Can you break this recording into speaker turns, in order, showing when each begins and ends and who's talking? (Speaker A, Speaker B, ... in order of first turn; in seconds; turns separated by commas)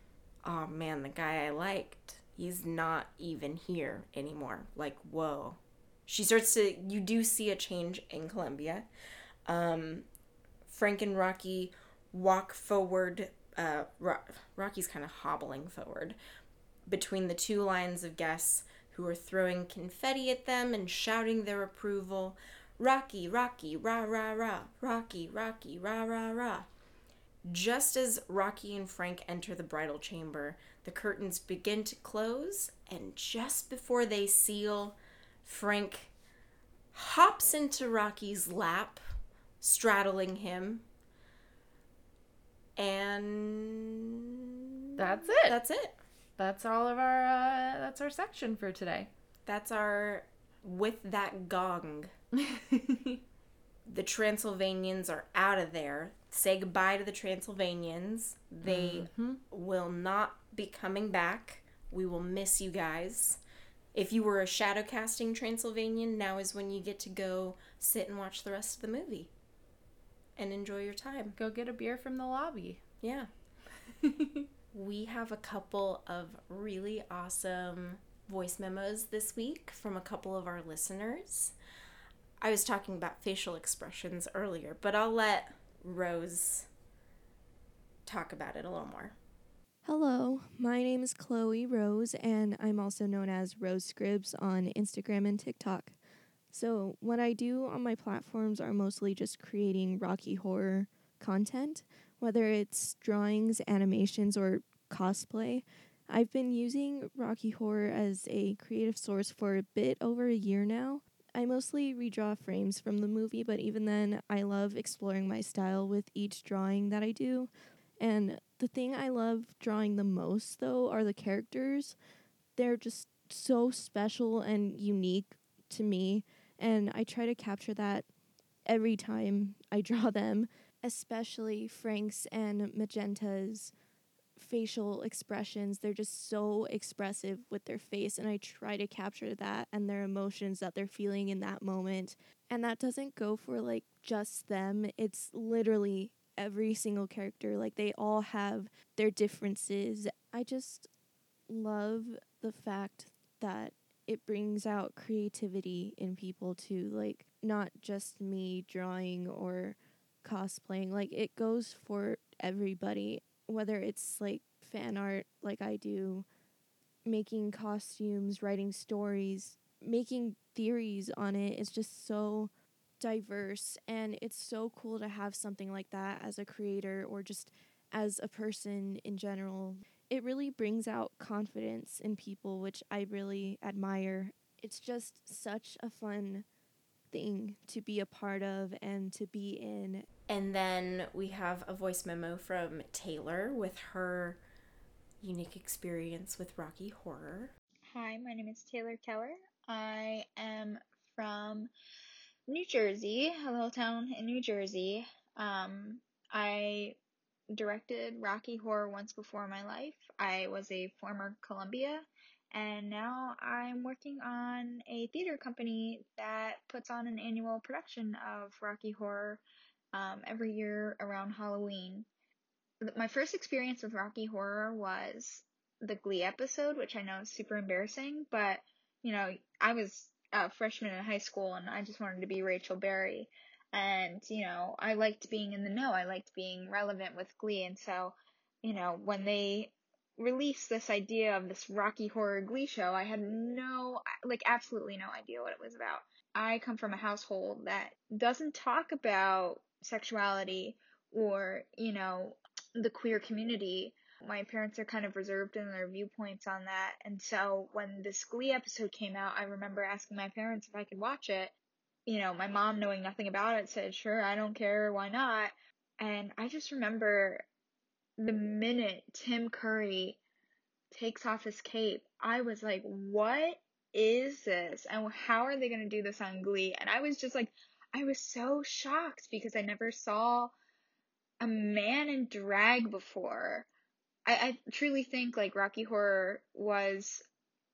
Speaker A: 0.4-8.9, Speaker A: 9.5-10.1, Speaker A: 10.7-16.2, Speaker A: 16.9-26.7, Speaker A: 27.4-36.1, Speaker A: 36.9-39.0, Speaker A: 39.6-40.9, Speaker A: 42.8-46.0, Speaker B: 45.0-45.6, Speaker B: 46.4-49.1, Speaker A: 49.5-52.1, Speaker B: 52.4-53.2, Speaker A: 53.9-63.4, Speaker B: 58.6-59.4, Speaker A: 63.9-69.3, Speaker A: 70.4-71.4, Speaker B: 71.4-72.8, Speaker A: 73.0-73.3, Speaker B: 74.0-74.5, Speaker A: 74.7-81.5, Speaker A: 82.4-86.7, Speaker A: 88.1-89.2, Speaker C: 89.8-95.9, Speaker C: 96.5-117.5, Speaker C: 118.0-122.0, Speaker C: 122.6-128.1, Speaker C: 128.7-133.7, Speaker C: 134.4-150.9, Speaker C: 151.5-166.3, Speaker C: 167.1-186.5, Speaker C: 187.1-190.1, Speaker A: 190.3-194.4, Speaker A: 195.2-197.5, Speaker D: 197.9-201.7, Speaker D: 202.5-207.0, Speaker D: 207.5-219.4, Speaker D: 219.9-222.1, Speaker D: 222.8-261.5, Speaker D: 262.1-267.4, Speaker D: 268.2-270.2, Speaker D: 270.9-280.5, Speaker D: 281.4-283.7, Speaker D: 284.3-287.2